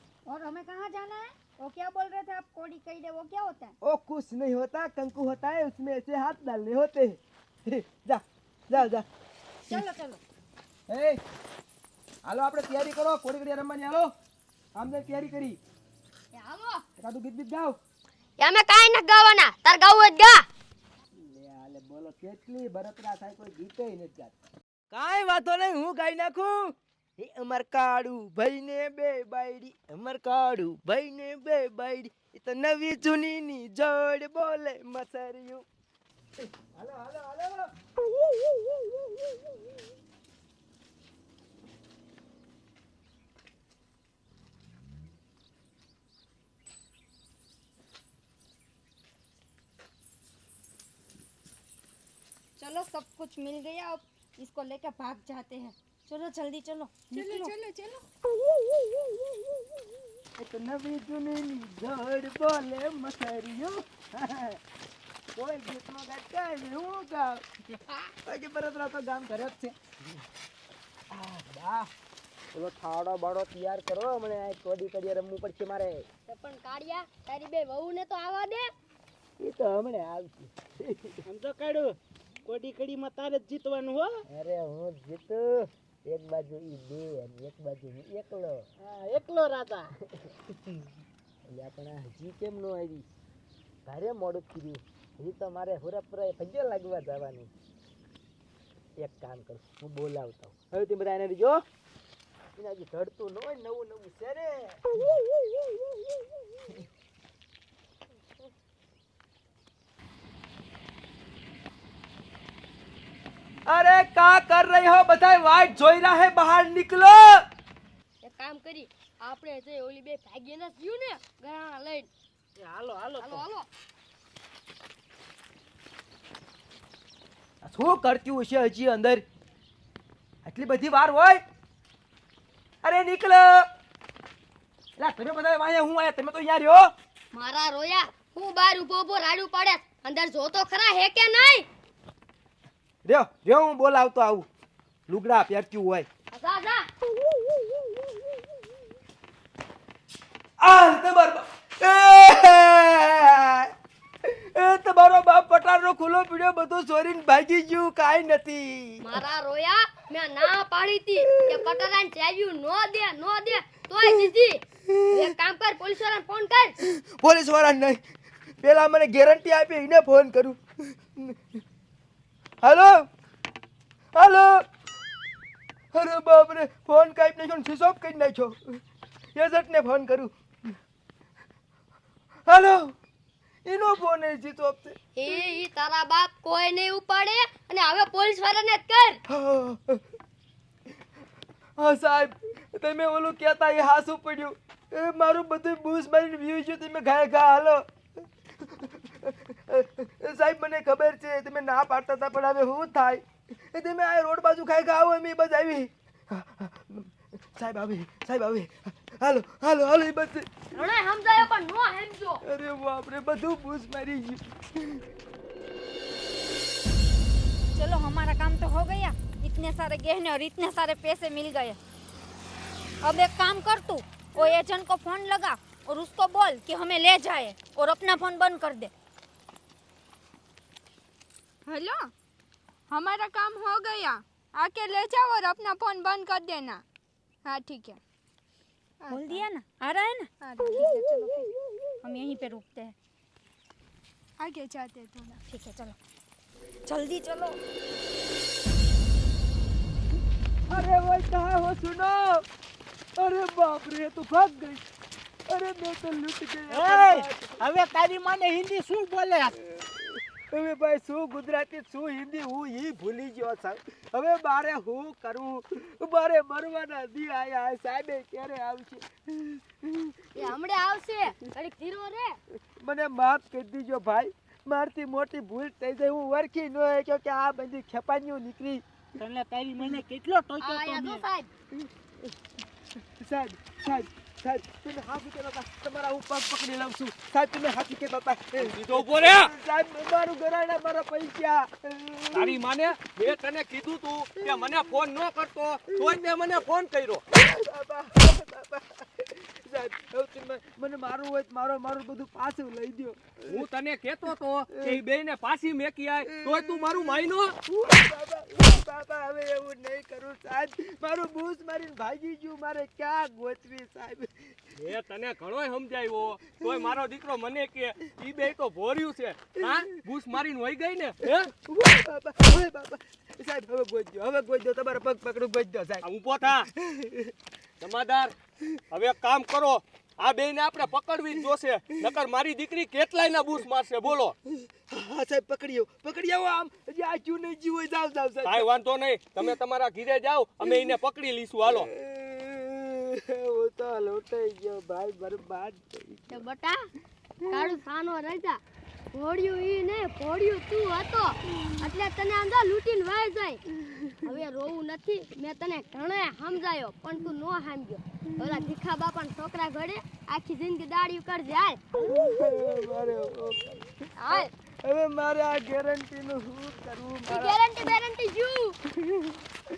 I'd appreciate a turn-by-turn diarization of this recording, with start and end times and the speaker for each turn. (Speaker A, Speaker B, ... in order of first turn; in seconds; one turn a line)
Speaker A: 0.3-3.8
Speaker B: 3.8-9.1
Speaker A: 9.7-10.2
Speaker B: 10.9-11.2
Speaker B: 12.2-14.1
Speaker B: 14.8-15.6
Speaker C: 16.3-16.8
Speaker B: 17.0-17.8
Speaker C: 18.4-20.4
Speaker B: 21.2-24.3
Speaker B: 24.9-35.6
Speaker B: 36.5-37.7
Speaker A: 52.6-57.5
Speaker D: 57.1-58.0
Speaker B: 60.4-64.6
Speaker B: 65.4-67.4
Speaker B: 68.2-69.8
Speaker B: 71.1-71.9
Speaker B: 72.5-76.1
Speaker C: 76.3-78.7
Speaker B: 79.4-81.2
Speaker E: 81.3-84.2
Speaker B: 84.3-88.7
Speaker E: 88.8-89.9
Speaker B: 90.2-90.5
Speaker B: 91.5-93.1
Speaker B: 93.9-97.5
Speaker B: 99.0-101.6
Speaker B: 102.6-104.9
Speaker B: 113.7-117.4
Speaker C: 118.2-122.1
Speaker E: 122.6-123.4
Speaker C: 123.2-123.7
Speaker B: 127.6-129.2
Speaker B: 130.4-131.4
Speaker B: 132.8-133.7
Speaker B: 135.0-136.9
Speaker C: 137.3-141.7
Speaker B: 143.1-144.5
Speaker B: 145.1-146.1
Speaker C: 146.3-146.8
Speaker B: 150.6-153.7
Speaker B: 154.3-159.1
Speaker C: 159.0-166.8
Speaker B: 161.3-161.7
Speaker B: 164.9-165.3
Speaker B: 166.8-168.0
Speaker B: 168.6-171.6
Speaker B: 172.6-173.1
Speaker B: 174.2-174.7
Speaker B: 175.9-178.8
Speaker B: 179.3-180.7
Speaker B: 182.5-183.0
Speaker B: 183.7-185.0
Speaker C: 185.2-189.2
Speaker B: 189.3-190.0
Speaker B: 191.8-197.8
Speaker B: 198.6-210.8
Speaker C: 210.8-212.4
Speaker B: 212.4-215.0
Speaker A: 217.7-221.8
Speaker A: 223.0-228.9
Speaker D: 231.7-232.1
Speaker D: 232.9-236.8
Speaker D: 237.4-238.0
Speaker D: 239.0-239.5
Speaker A: 239.1-240.3
Speaker D: 240.4-241.5
Speaker A: 242.0-242.9
Speaker D: 244.4-245.4
Speaker A: 245.5-246.0
Speaker A: 246.9-247.6
Speaker B: 250.7-252.4
Speaker B: 253.2-254.8
Speaker B: 255.5-257.6
Speaker E: 256.7-259.6
Speaker B: 259.7-270.5
Speaker C: 270.4-272.4
Speaker B: 272.8-278.8
Speaker E: 279.2-281.2
Speaker C: 280.6-281.5
Speaker B: 283.1-292.6
Speaker F: 288.6-289.5
Speaker F: 292.3-297.2
Speaker B: 294.4-294.7
Speaker B: 297.3-303.7
Speaker F: 303.5-307.5
Speaker B: 304.7-305.0
Speaker B: 306.2-314.7
Speaker F: 314.8-321.5
Speaker B: 321.2-326.0
Speaker F: 326.0-326.7
Speaker B: 326.6-327.3
Speaker F: 327.8-328.3
Speaker F: 328.9-334.4
Speaker B: 334.5-338.7
Speaker F: 338.4-341.9
Speaker B: 340.6-340.9
Speaker B: 341.6-346.4
Speaker C: 346.3-346.8
Speaker C: 347.4-348.6
Speaker C: 349.1-353.6
Speaker C: 354.2-361.8
Speaker B: 362.0-367.9
Speaker C: 364.2-364.5
Speaker C: 367.3-368.8
Speaker B: 368.9-369.4